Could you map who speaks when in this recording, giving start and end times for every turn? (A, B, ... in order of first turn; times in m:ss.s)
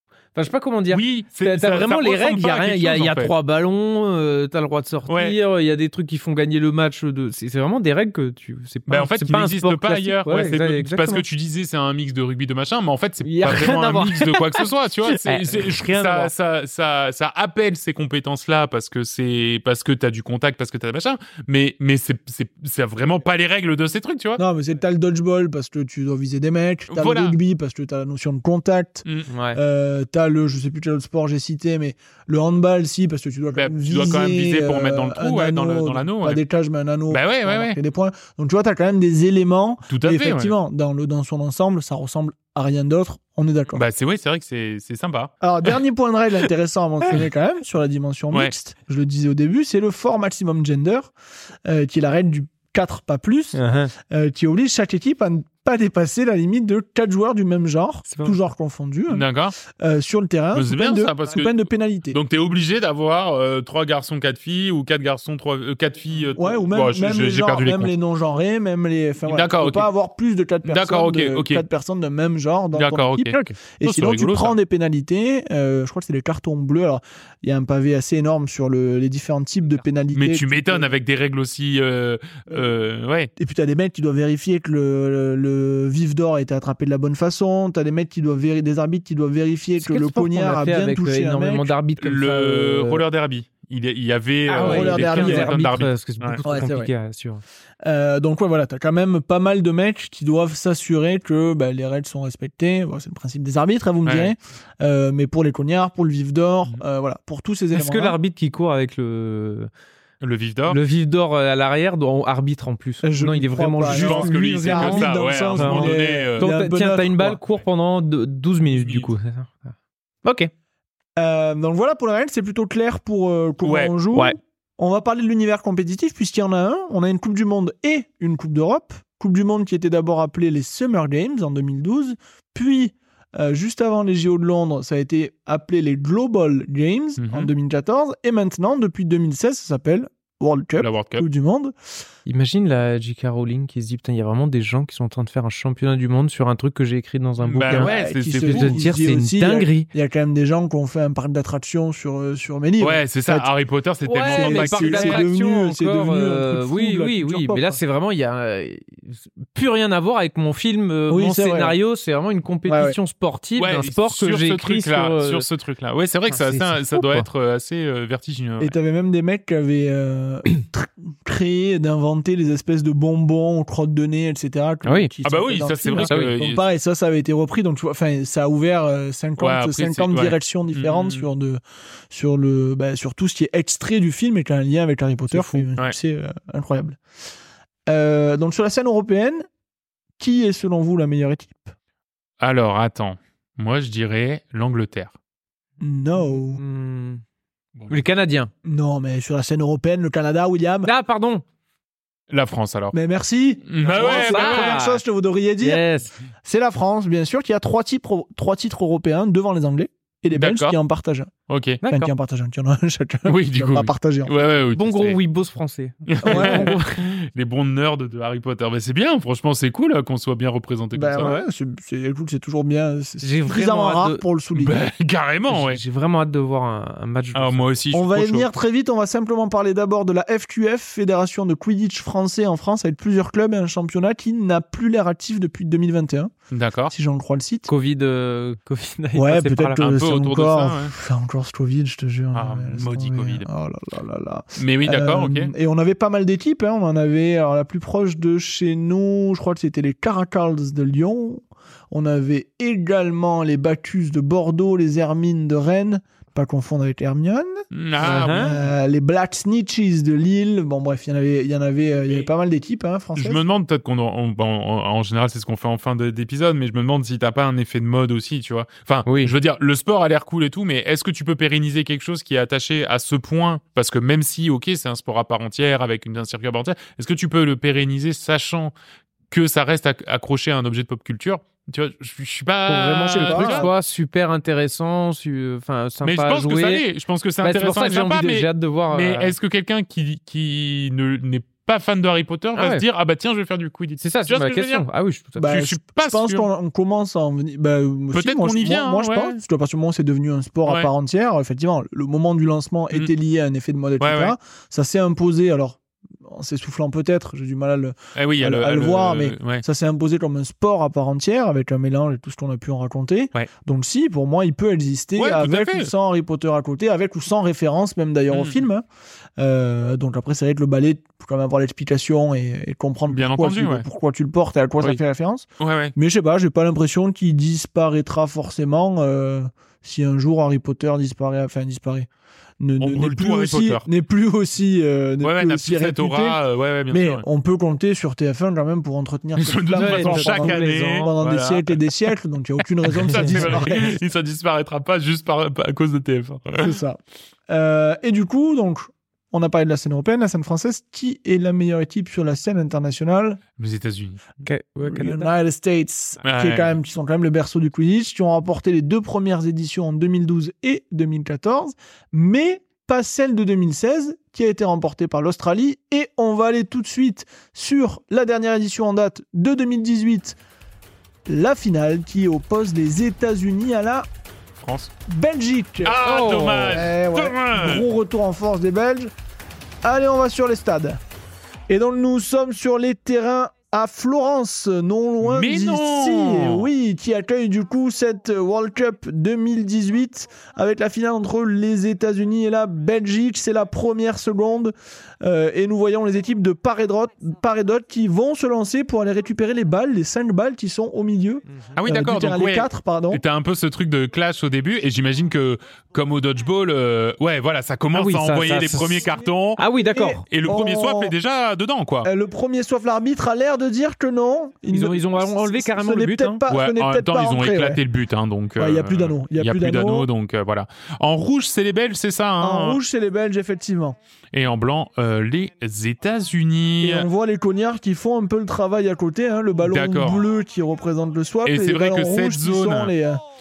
0:00.3-0:11.2 A
0:00.9-0:03.3 B
0:05.0-0:05.4 B
0:08.9-0:24.4 B
0:13.2-0:16.3 A
0:24.4-0:43.8 C
0:26.9-0:27.4 B
0:29.3-0:29.6 A
0:33.5-0:36.4 B
0:37.1-0:37.8 B
0:39.9-0:40.5 B
0:43.7-0:45.3 B
0:45.4-0:51.1 C
0:51.6-1:02.2 C
0:53.5-0:53.9 A
0:59.1-0:59.6 B
1:00.5-1:07.9 B
1:06.4-1:20.9 C
1:09.2-1:09.9 B
1:10.6-1:11.6 B
1:12.7-1:14.6 B
1:20.1-1:23.3 B
1:23.4-1:31.7 C
1:29.8-1:33.0 A
1:32.0-1:36.4 B
1:34.5-1:37.4 A
1:34.6-1:35.7 C
1:36.4-1:36.9 C
1:37.8-1:48.2 C
1:44.0-1:44.3 B
1:47.7-1:49.7 A
1:50.2-1:50.8 B
1:50.7-1:59.7 A
1:53.0-1:57.4 C
1:53.8-1:56.5 B
1:58.7-1:59.1 B
2:00.2-2:00.5 A
2:01.2-2:21.7 C
2:03.6-2:03.9 B
2:17.2-2:17.5 B
2:20.8-2:21.2 B
2:22.2-2:29.9 A
2:27.4-2:28.9 B
2:27.6-2:33.5 C
2:32.8-2:35.3 B
2:34.0-2:45.4 A
2:34.3-2:37.8 C
2:41.1-2:41.8 C
2:42.7-2:43.0 C
2:43.6-2:48.7 B
2:46.3-2:47.2 A
2:48.6-3:07.0 C
2:54.8-2:55.1 A
2:55.2-2:56.6 B
2:56.0-2:56.3 A
2:59.4-3:01.2 B
3:05.3-3:05.7 A
3:07.9-3:09.5 C
3:10.2-3:11.7 C
3:12.4-3:15.1 B
3:15.8-3:16.6 C
3:16.5-3:17.2 A
3:17.8-3:18.0 B
3:17.9-3:18.5 A
3:18.6-3:20.9 C
3:20.8-3:21.4 A
3:22.3-3:22.9 B
3:22.9-3:25.8 C
3:23.6-3:24.8 B
3:23.9-3:25.0 A
3:25.6-3:26.1 A
3:26.4-3:31.3 C
3:30.3-3:30.8 B
3:31.5-3:31.8 B
3:31.8-3:32.1 A
3:31.8-3:34.4 C
3:33.2-3:35.2 B
3:34.7-3:37.1 A
3:36.1-3:41.3 B
3:36.2-3:36.8 C
3:40.9-3:44.8 C
3:43.2-3:44.2 A
3:44.5-3:45.8 B
3:45.5-3:47.8 A
3:47.3-3:48.5 B
3:47.9-3:56.3 C
3:56.5-3:56.9 B
3:56.9-3:57.7 C
3:57.7-3:59.8 A
3:59.1-4:23.4 C
3:59.8-4:00.9 B
4:02.3-4:03.5 B
4:04.6-4:05.5 B
4:17.7-4:18.6 B
4:18.0-4:18.5 A
4:23.2-4:38.7 B
4:29.0-4:29.3 A
4:39.3-4:43.7 B
4:42.7-4:46.8 A
4:43.1-4:43.7 C
4:46.0-4:54.8 B
4:47.4-4:49.3 A
4:52.5-4:52.8 A
4:54.0-4:55.6 A
4:55.4-5:18.8 C
4:55.4-4:56.5 B
4:58.1-4:59.4 B
5:04.0-5:04.4 B
5:08.1-5:09.6 B
5:15.2-5:15.9 B
5:18.3-5:18.6 B
5:19.4-5:32.1 C
5:23.1-5:23.8 B
5:25.6-5:25.9 B
5:32.6-5:44.0 C
5:32.8-5:33.8 B
5:35.2-5:37.2 B
5:39.4-5:41.9 B
5:39.7-5:41.1 A
5:42.8-5:46.8 B
5:46.6-5:53.4 C
5:53.6-5:54.2 B
5:54.4-5:55.3 A
5:54.8-6:10.4 C
5:56.2-5:56.8 B
6:11.2-6:14.1 C
6:14.6-6:14.9 B
6:15.1-6:19.1 C
6:15.8-6:17.9 B
6:16.0-6:16.7 A
6:19.8-6:21.0 C
6:21.7-6:43.2 C
6:25.2-6:26.7 B
6:41.7-6:49.6 B
6:47.9-6:50.2 A
6:49.1-6:51.1 C
6:50.3-6:52.1 B
6:52.0-6:57.8 C
6:54.7-6:56.4 A
6:56.5-7:02.8 B
6:58.6-7:00.1 C
7:02.4-7:04.0 C
7:04.3-7:07.1 B
7:06.8-7:13.2 C
7:09.6-7:10.3 B
7:11.4-7:12.9 B